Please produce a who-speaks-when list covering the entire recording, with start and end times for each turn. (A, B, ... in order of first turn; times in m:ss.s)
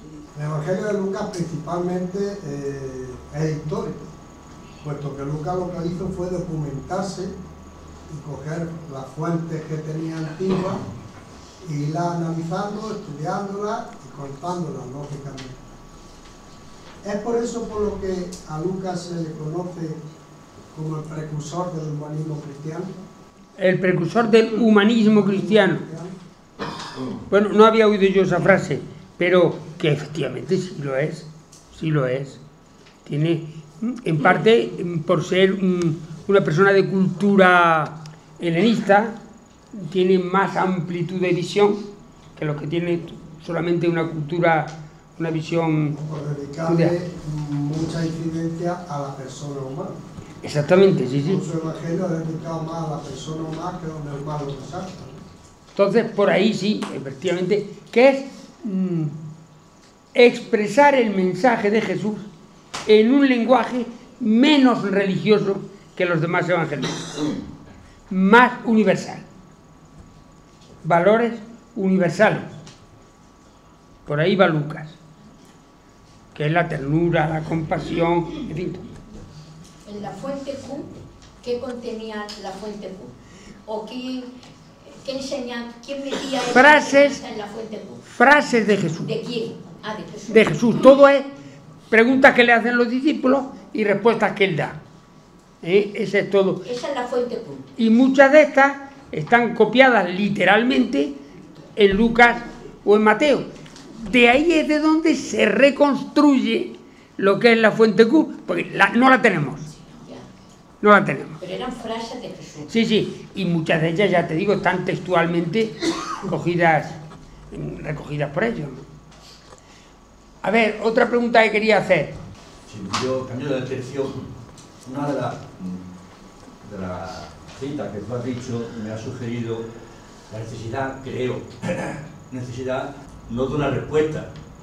0:00.4-0:04.1 A
0:04.8-0:07.4 A
0:08.1-0:10.8 A
0:11.6-0:15.6 A
0:17.0-0:20.0 A
0:20.7-0:23.0 A
0:23.6-0:25.8 B
0:25.2-0:26.1 A
0:27.3-0:32.4 B
0:33.1-0:39.2 B
0:39.7-0:41.9 B
0:42.4-0:46.0 B
0:45.9-0:50.0 A
0:46.7-0:46.9 B
0:50.4-0:51.4 B
0:51.2-0:55.2 A
0:55.8-0:59.1 B
1:00.1-1:02.3 B
1:02.9-1:07.3 B
1:08.1-1:09.2 B
1:10.8-1:12.5 B
1:14.1-1:15.0 B
1:16.3-1:18.8 B
1:19.8-1:23.1 C
1:23.7-1:24.3 C
1:24.9-1:28.0 C
1:26.5-1:27.2 B
1:28.1-1:29.1 B
1:29.0-1:30.8 C
1:30.3-1:31.3 B
1:31.9-1:34.8 B
1:35.6-1:36.6 B
1:36.6-1:37.7 C
1:37.8-1:41.2 B
1:41.8-1:49.7 B
1:49.8-1:50.3 C
1:50.8-1:51.4 B
1:51.4-1:52.7 C
1:52.7-1:55.8 B
1:56.3-1:57.0 B
1:57.5-1:58.8 B
2:00.4-2:02.1 B
2:02.7-2:04.3 D
2:04.8-2:05.8 D
2:06.6-2:09.7 D
2:10.3-2:14.3 D